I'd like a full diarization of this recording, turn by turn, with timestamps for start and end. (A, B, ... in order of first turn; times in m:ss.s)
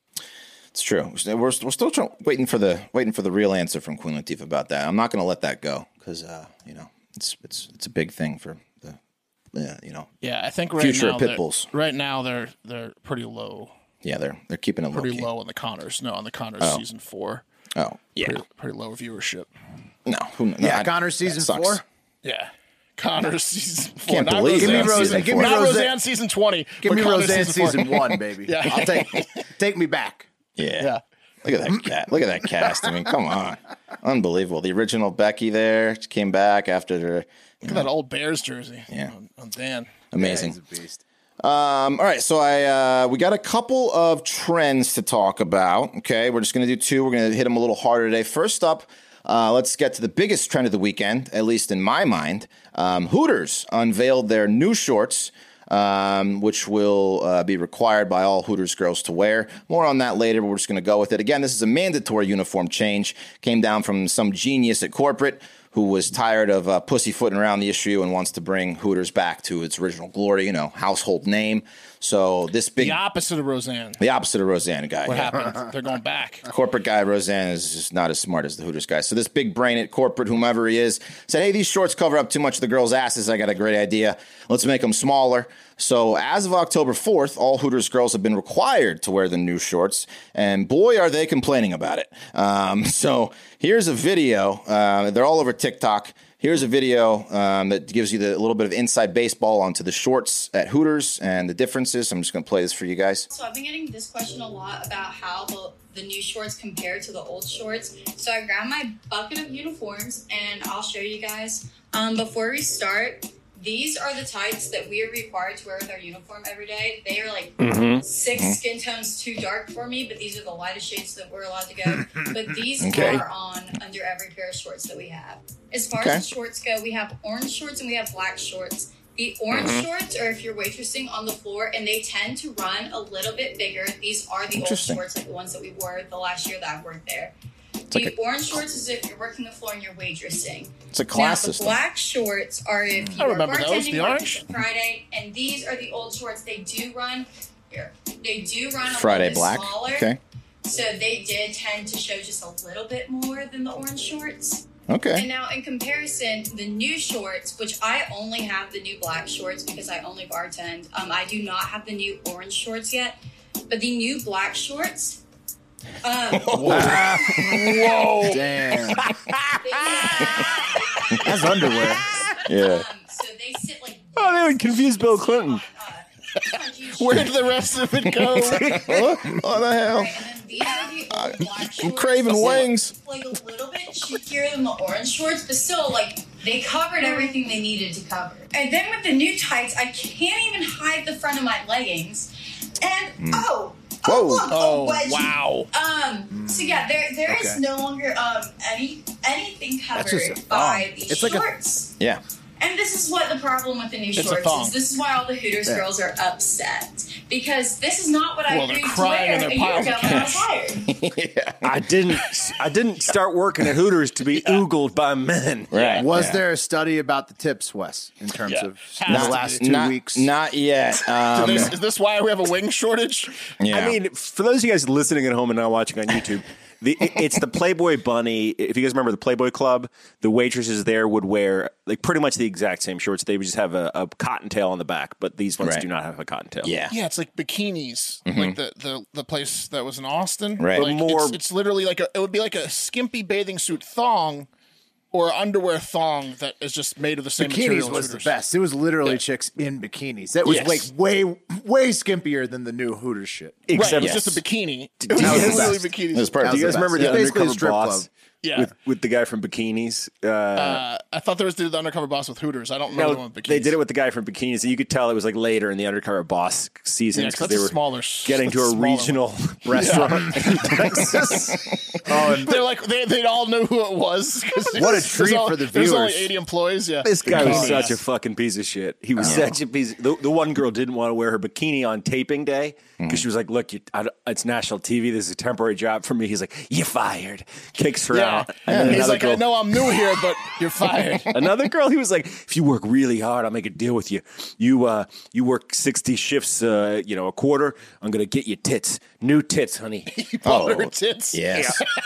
0:00.7-0:09.0 A
0:09.5-0:10.1 A
0:10.2-0:13.7 B
0:10.8-0:11.7 A
0:14.0-0:15.3 A
0:14.9-0:17.4 B
0:17.8-0:18.4 A
0:18.2-0:19.5 B
0:20.1-0:21.8 A
0:20.6-0:21.8 C
0:22.2-0:29.3 B
0:24.1-0:25.6 A
0:24.6-0:26.0 C
0:26.8-0:30.3 C
0:30.6-0:37.9 A
0:37.6-0:39.9 B
0:40.1-0:40.6 A
0:40.2-0:41.0 C
0:41.4-1:13.0 A
1:12.8-1:14.0 B
1:14.0-1:15.6 A
1:15.0-1:16.5 B
1:16.5-1:43.3 A
1:43.3-2:17.4 D
1:57.6-1:58.0 E
2:02.8-2:03.2 A
2:06.0-2:06.3 A
2:09.5-2:09.8 A
2:14.5-2:15.0 A
2:17.9-2:30.1 D
2:20.9-2:21.8 A
2:22.9-2:23.2 C
2:23.2-2:24.4 B
2:28.9-2:30.2 A
2:30.6-2:43.2 D
2:34.9-2:35.3 A
2:43.7-2:45.2 D
2:46.0-2:47.6 D
2:46.4-2:47.1 A
2:46.6-2:49.1 C
2:47.5-2:48.4 B
2:49.0-2:50.7 E
2:49.6-2:57.3 D
2:51.2-2:52.1 C
2:52.5-2:52.9 A
2:54.2-2:55.6 E
2:56.9-2:58.7 B
2:58.2-2:59.1 E
2:58.7-3:00.2 A
2:59.8-3:22.0 D
3:01.1-3:02.9 A
3:13.2-3:13.5 A
3:14.0-3:14.5 A
3:14.5-3:15.7 B
3:16.3-3:17.6 C
3:19.9-3:21.5 C
3:22.6-3:30.9 D
3:24.2-3:24.8 B
3:28.5-3:30.5 B
3:30.8-3:31.9 A
3:31.6-3:36.2 E
3:35.7-3:36.4 A
3:36.0-3:40.3 C
3:38.5-3:39.6 B
3:39.1-3:41.8 A
3:41.3-3:43.4 B
3:43.6-3:44.0 A
3:43.7-3:56.7 E
3:55.6-3:55.9 A
3:56.6-3:57.0 A
3:56.9-4:04.5 B
3:58.3-3:58.6 A
4:00.6-4:00.9 A
4:00.8-4:01.4 E
4:05.1-4:08.3 B
4:07.4-4:13.7 C
4:13.7-4:14.4 E
4:13.7-4:16.4 B
4:14.0-4:14.4 A
4:15.0-4:15.8 E
4:15.2-4:15.9 C
4:15.2-4:16.8 A
4:16.4-4:18.1 C
4:16.4-4:20.8 E
4:17.0-4:17.2 B
4:18.4-4:18.7 B
4:20.6-4:23.8 B
4:22.9-4:31.7 E
4:27.1-4:31.0 B
4:32.0-4:32.6 C
4:32.4-4:38.0 B
4:34.7-4:36.3 C
4:37.0-4:49.9 E
4:37.4-4:37.8 C
4:39.2-4:39.4 C
4:39.2-4:39.6 A
4:43.0-4:43.2 A
4:48.1-4:51.3 B
4:48.7-4:49.3 A
4:51.3-5:00.1 E
5:00.1-5:01.9 B
5:00.4-5:01.8 A
5:01.5-5:01.8 E